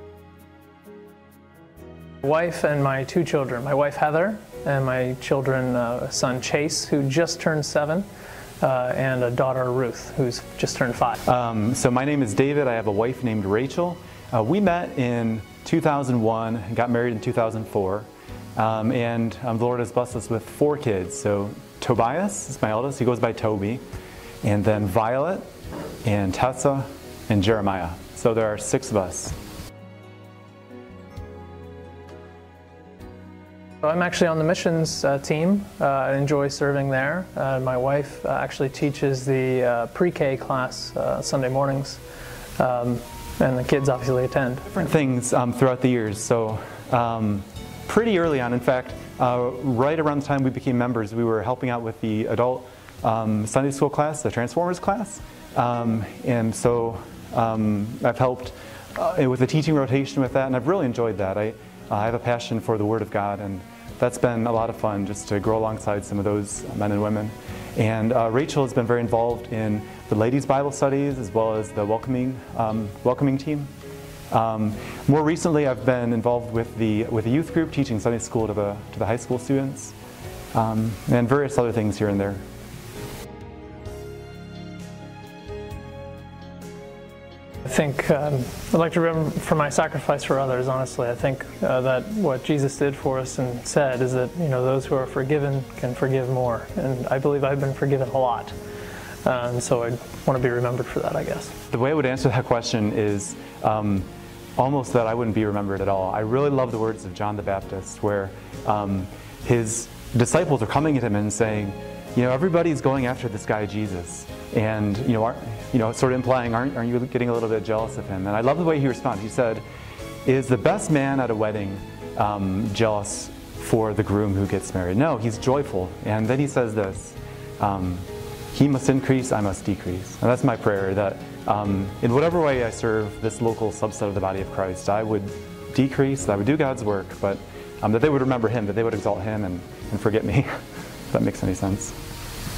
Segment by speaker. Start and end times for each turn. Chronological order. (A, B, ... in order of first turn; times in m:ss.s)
0:02.2-0:08.0 A
0:08.6-0:11.2 A
0:11.2-0:23.8 B
0:24.4-0:25.4 B
0:26.0-0:29.3 B
0:33.8-0:42.0 A
0:42.6-0:44.7 A
0:44.6-1:13.7 B
1:14.3-1:19.9 B
1:20.5-1:22.4 B
1:27.6-1:38.5 A
1:39.2-1:41.5 A
1:41.7-1:59.6 B
2:00.2-2:20.6 B
2:21.1-2:22.0 B